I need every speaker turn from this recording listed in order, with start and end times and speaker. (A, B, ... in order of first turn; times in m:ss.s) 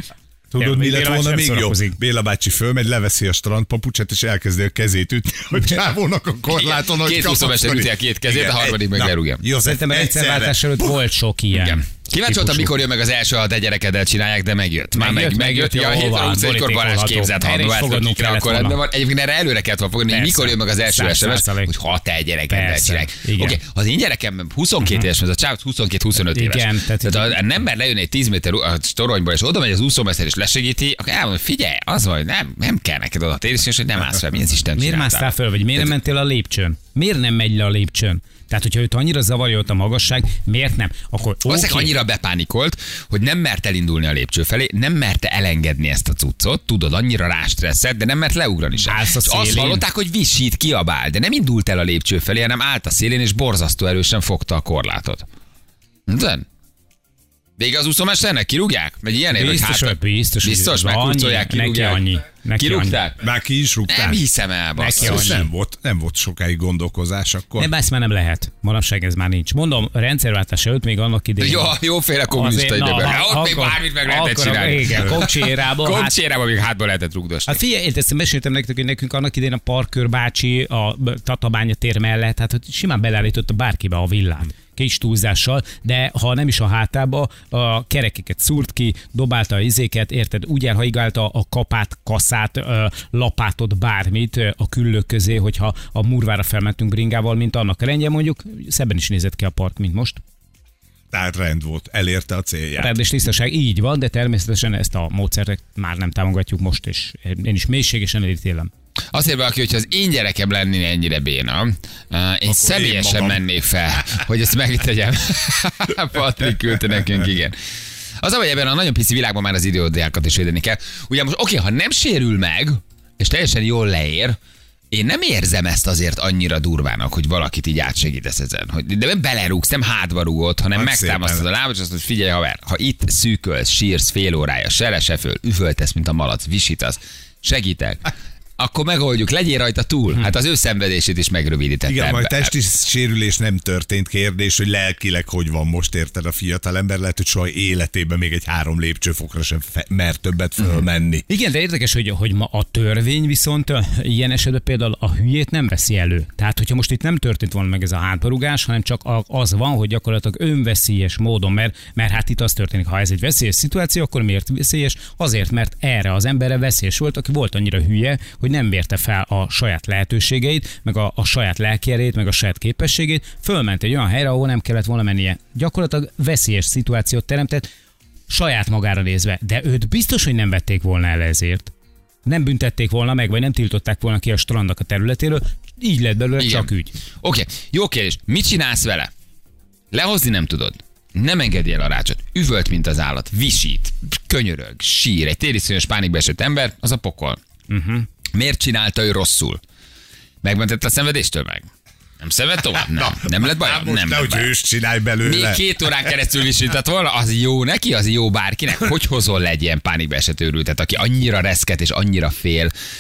0:00.5-0:11.1 A
0:00.6-0:02.0 B
0:06.5-0:09.4 C
0:09.6-0:12.7 B
0:11.5-0:35.9 C
0:14.9-0:18.8 B
0:20.1-0:21.7 B
0:22.5-0:23.6 B
0:26.2-0:27.4 B
0:34.8-0:42.0 B
0:41.4-0:55.2 C
0:48.8-0:49.8 B
0:56.1-0:56.4 C
0:57.6-1:03.2 C
0:59.3-1:03.0 B
1:03.2-1:04.2 A
1:03.9-1:05.4 C
1:04.8-1:05.5 B
1:04.9-1:07.7 A
1:07.6-1:11.8 B
1:11.4-1:17.6 C
1:12.3-1:16.1 B
1:17.5-1:40.2 B
1:41.1-1:42.9 A
1:42.8-1:48.7 B
1:49.1-1:57.5 C
1:52.5-1:53.4 A
1:58.2-2:04.4 C
2:04.9-2:22.5 C
2:10.8-2:11.5 A
2:21.9-2:31.3 A
2:31.3-2:57.7 B
2:58.3-3:01.7 B
3:02.2-3:07.0 B
3:06.4-3:06.7 C
3:07.2-3:09.1 C
3:09.9-3:17.4 C
3:17.7-3:18.1 B
3:18.3-3:19.6 C
3:20.4-3:21.7 C
3:22.2-3:24.5 C
3:22.9-3:26.1 A
3:25.2-3:32.7 C